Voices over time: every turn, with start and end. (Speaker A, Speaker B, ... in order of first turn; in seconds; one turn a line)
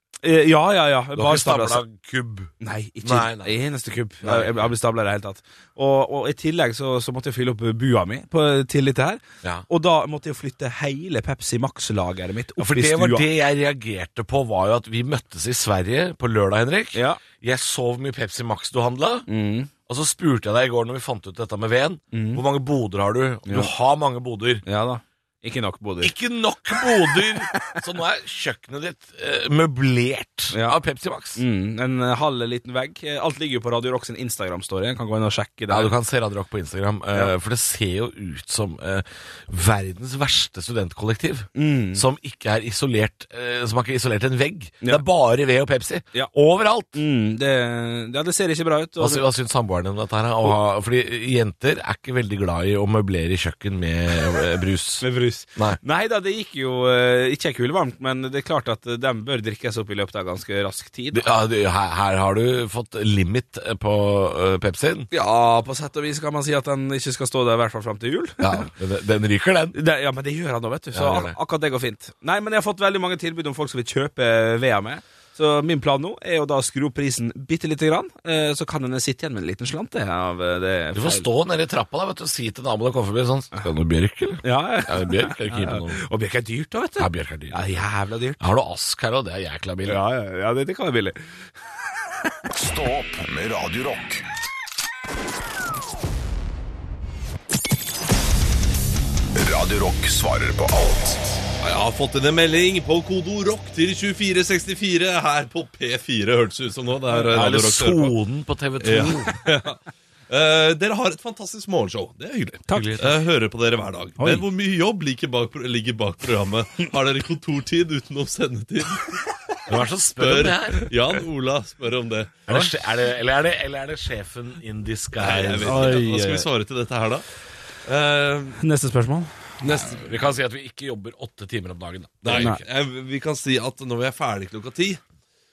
Speaker A: 0.2-1.8
Speaker B: 1.1-3.6
Speaker A: 2.6-13.3
Speaker B: 4.2-4.7
Speaker B: 12.6-19.3
Speaker A: 16.9-17.2
Speaker A: 19.3-19.7
Speaker B: 19.9-24.6
Speaker A: 22.1-22.4
Speaker A: 23.4-23.7
Speaker A: 24.6-26.1
Speaker B: 26.0-31.4
Speaker A: 27.5-27.8
Speaker A: 30.5-30.8
Speaker A: 31.4-35.9
Speaker B: 35.7-47.0
Speaker A: 41.5-42.0
Speaker A: 46.9-49.2
Speaker B: 49.0-55.8
Speaker A: 55.0-61.3
Speaker B: 61.1-65.1
Speaker A: 65.1-68.7
Speaker B: 68.4-69.8
Speaker A: 69.7-81.2
Speaker B: 70.9-71.3
Speaker B: 80.9-86.0
Speaker A: 84.4-88.4
Speaker B: 87.0-87.6
Speaker B: 88.4-90.0
Speaker A: 89.8-91.2
Speaker C: 92.5-94.2
Speaker C: 99.3-101.4
Speaker D: 101.6-108.2
Speaker B: 107.1-109.3
Speaker D: 108.8-119.2
Speaker A: 112.7-113.0
Speaker B: 112.7-113.2
Speaker A: 114.2-114.5
Speaker B: 119.7-120.9
Speaker D: 120.2-122.5
Speaker B: 122.5-126.0
Speaker D: 125.2-127.2
Speaker A: 125.6-126.5
Speaker D: 127.8-128.6
Speaker A: 128.6-129.5
Speaker B: 129.6-132.6
Speaker D: 132.2-135.0
Speaker A: 132.3-132.6